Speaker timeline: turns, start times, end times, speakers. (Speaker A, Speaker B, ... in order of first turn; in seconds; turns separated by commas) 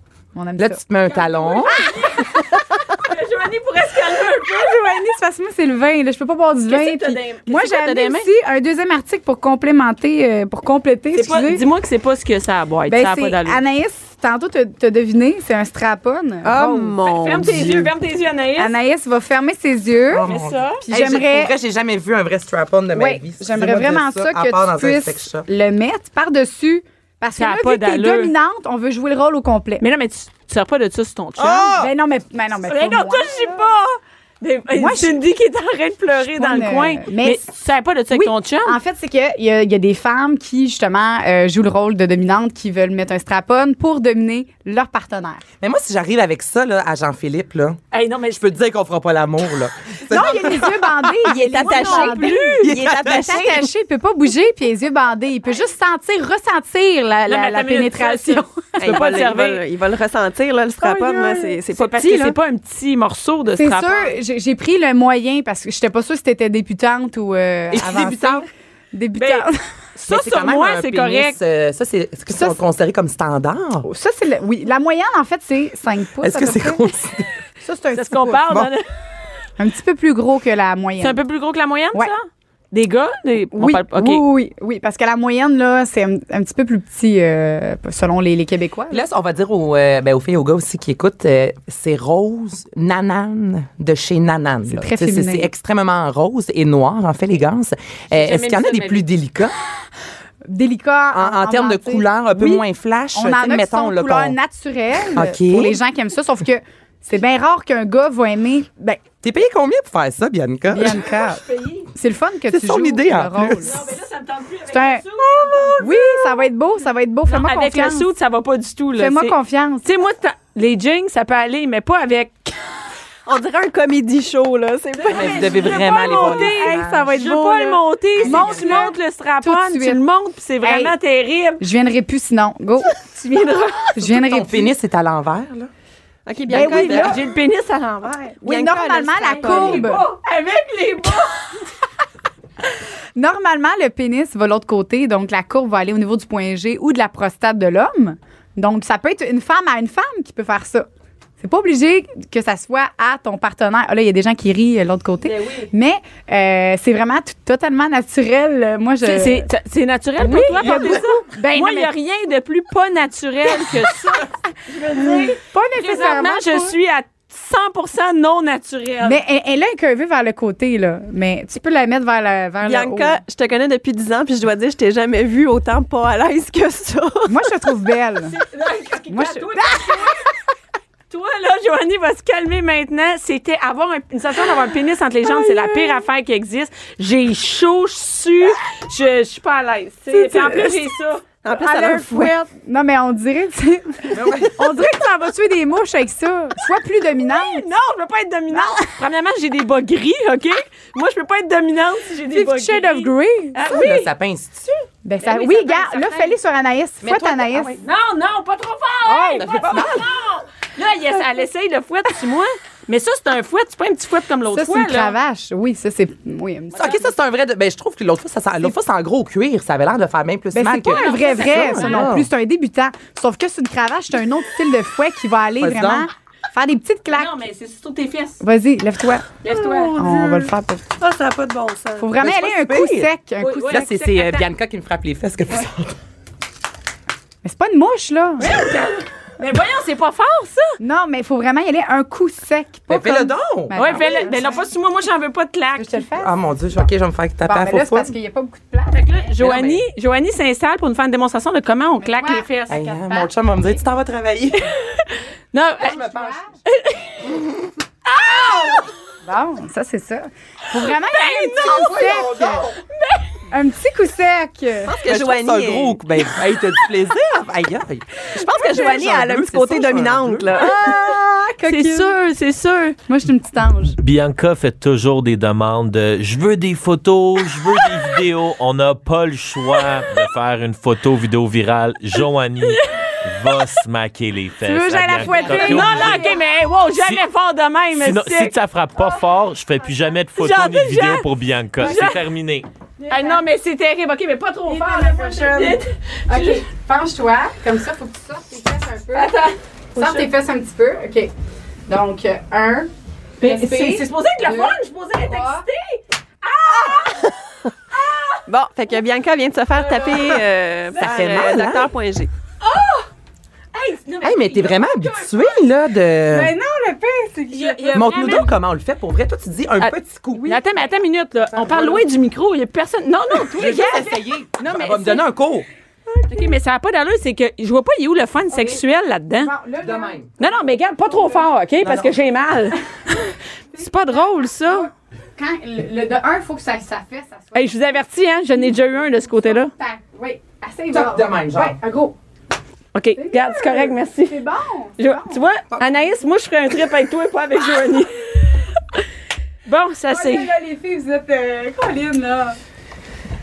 Speaker A: 0.3-0.8, Speaker B: 0.6-1.9, Speaker C: 1.1-4.8, Speaker A: 4.5-11.6, Speaker C: 6.7-8.2, Speaker D: 7.9-8.2, Speaker C: 11.1-13.6, Speaker A: 12.9-16.9, Speaker D: 16.4-17.9, Speaker C: 17.0-18.7, Speaker A: 18.6-20.3, Speaker B: 20.1-25.5, Speaker C: 20.2-20.8, Speaker A: 20.9-21.5, Speaker A: 22.9-29.8, Speaker C: 27.4-28.3, Speaker C: 29.8-31.7, Speaker B: 31.4-31.9, Speaker A: 31.8-33.6, Speaker C: 32.6-38.8, Speaker A: 34.7-35.2, Speaker A: 36.3-37.5, Speaker A: 38.1-45.4, Speaker B: 45.6-51.4, Speaker C: 47.9-48.4, Speaker A: 50.1-59.0, Speaker D: 51.2-53.7, Speaker C: 51.5-52.7, Speaker B: 52.5-53.6, Speaker C: 57.3-59.6, Speaker D: 58.8-62.4, Speaker C: 60.8-64.2, Speaker A: 63.5-69.6, Speaker B: 67.7-68.5, Speaker C: 69.2-71.4, Speaker B: 70.0-73.9, Speaker A: 72.3-72.6, Speaker A: 73.8-76.8, Speaker B: 76.2-77.3, Speaker A: 77.6-78.6, Speaker C: 77.9-78.8, Speaker A: 79.6-81.2, Speaker C: 81.0-84.2, Speaker A: 83.5-89.0, Speaker B: 88.9-99.5, Speaker A: 94.7-95.5, Speaker C: 98.1-99.1, Speaker A: 100.5-102.6, Speaker B: 101.1-104.3, Speaker A: 103.1-109.0, Speaker B: 105.1-105.8, Speaker B: 109.2-111.1, Speaker A: 110.7-111.4, Speaker C: 111.0-111.9, Speaker A: 111.9-113.8, Speaker B: 112.5-113.8, Speaker C: 113.6-115.9, Speaker A: 114.7-115.0, Speaker B: 115.2-116.2, Speaker A: 115.8-118.1, Speaker C: 117.3-122.6, Speaker A: 119.0-119.8, Speaker D: 123.2-125.8, Speaker C: 125.0-131.6, Speaker B: 125.1-127.2, Speaker A: 126.2-130.0, Speaker D: 128.2-128.8, Speaker A: 130.6-130.9, Speaker A: 131.6-133.0, Speaker C: 132.9-133.9, Speaker A: 133.9-134.7, Speaker B: 134.0-135.7, Speaker D: 136.2-137.2, Speaker A: 136.5-137.3, Speaker C: 136.6-138.4, Speaker A: 138.4-140.0, Speaker D: 138.4-139.8, Speaker C: 139.2-141.5, Speaker A: 143.2-150.9, Speaker A: 151.4-159.5, Speaker C: 155.2-155.7, Speaker C: 159.0-169.2, Speaker A: 160.2-161.9, Speaker B: 160.6-161.0, Speaker A: 163.6-164.2, Speaker A: 164.9-166.8, Speaker A: 169.0-173.2, Speaker D: 172.6-177.5, Speaker A: 177.3-178.3, Speaker C: 178.3-180.2, Speaker A: 179.1-180.2, Speaker C: 181.1-191.2, Speaker A: 185.3-185.9, Speaker A: 190.1-190.9, Speaker D: 191.4-192.3, Speaker A: 191.5-197.7, Speaker B: 194.1-194.7, Speaker C: 197.1-204.1, Speaker A: 198.5-198.9, Speaker A: 202.3-203.6, Speaker B: 203.6-204.8, Speaker A: 205.0-207.7, Speaker C: 205.2-206.3, Speaker B: 207.0-207.8, Speaker C: 207.6-215.2, Speaker B: 209.0-210.1, Speaker A: 214.5-217.1, Speaker B: 216.7-222.3, Speaker A: 220.5-227.4, Speaker C: 220.8-222.1, Speaker B: 225.6-226.1, Speaker C: 227.1-228.4, Speaker A: 228.4-230.9, Speaker C: 229.4-230.5, Speaker B: 231.1-231.6, Speaker A: 232.0-233.9, Speaker B: 232.1-233.1, Speaker C: 233.4-234.5, Speaker B: 233.7-236.0, Speaker A: 237.4-238.6, Speaker C: 238.4-240.7, Speaker A: 240.8-244.7, Speaker B: 242.9-244.2, Speaker C: 243.7-245.9, Speaker A: 245.8-246.3, Speaker B: 246.2-248.1, Speaker A: 247.4-249.3, Speaker C: 248.9-253.0, Speaker B: 249.4-249.8, Speaker A: 252.0-253.3, Speaker B: 252.7-254.7, Speaker C: 254.7-256.0, Speaker B: 255.8-256.4, Speaker A: 255.8-256.5, Speaker C: 256.6-257.3, Speaker C: 258.1-258.8, Speaker B: 258.4-258.7, Speaker A: 259.2-262.7, Speaker C: 260.8-262.2, Speaker B: 261.6-262.8, Speaker C: 262.9-263.3, Speaker A: 263.5-264.9, Speaker D: 264.8-266.0, Speaker B: 265.0-271.2, Speaker D: 268.4-270.8, Speaker A: 270.6-272.1, Speaker C: 271.6-273.0, Speaker A: 273.1-274.0, Speaker E: 274.0-286.3, Speaker C: 282.6-283.7, Speaker A: 284.6-286.4, Speaker C: 285.2-288.5, Speaker E: 286.9-287.2, Speaker E: 287.9-292.7, Speaker C: 290.3-292.2, Speaker A: 291.8-292.2, Speaker A: 293.0-293.4, Speaker C: 293.1-296.6, Speaker A: 294.7-299.3, Speaker C: 299.1-300.3, Speaker A: 299.9-301.3, Speaker A: 301.9-302.9, Speaker C: 303.4-307.3, Speaker A: 303.4-305.6, Speaker C: 307.9-308.4, Speaker D: 308.5-312.3, Speaker C: 309.8-310.3, Speaker B: 311.0-311.9, Speaker C: 312.6-313.0, Speaker C: 313.7-315.6, Speaker B: 314.2-316.5, Speaker A: 316.3-318.4, Speaker C: 317.5-318.5, Speaker B: 317.9-320.5, Speaker C: 319.8-325.3, Speaker B: 321.5-322.0, Speaker A: 323.5-324.1, Speaker B: 323.5-325.6, Speaker A: 326.1-326.5, Speaker C: 326.3-329.5, Speaker A: 328.5-328.8, Speaker A: 329.4-330.2, Speaker B: 329.8-330.3, Speaker C: 330.4-332.8, Speaker A: 331.0-331.5, Speaker B: 331.8-332.1, Speaker A: 333.1-337.9, Speaker C: 333.7-334.9, Speaker C: 337.5-339.7, Speaker A: 338.5-342.1, Speaker B: 340.9-341.8, Speaker C: 342.9-344.4, Speaker A: 343.1-345.4, Speaker C: 345.0-349.0, Speaker C: 349.6-350.5, Speaker A: 350.1-352.6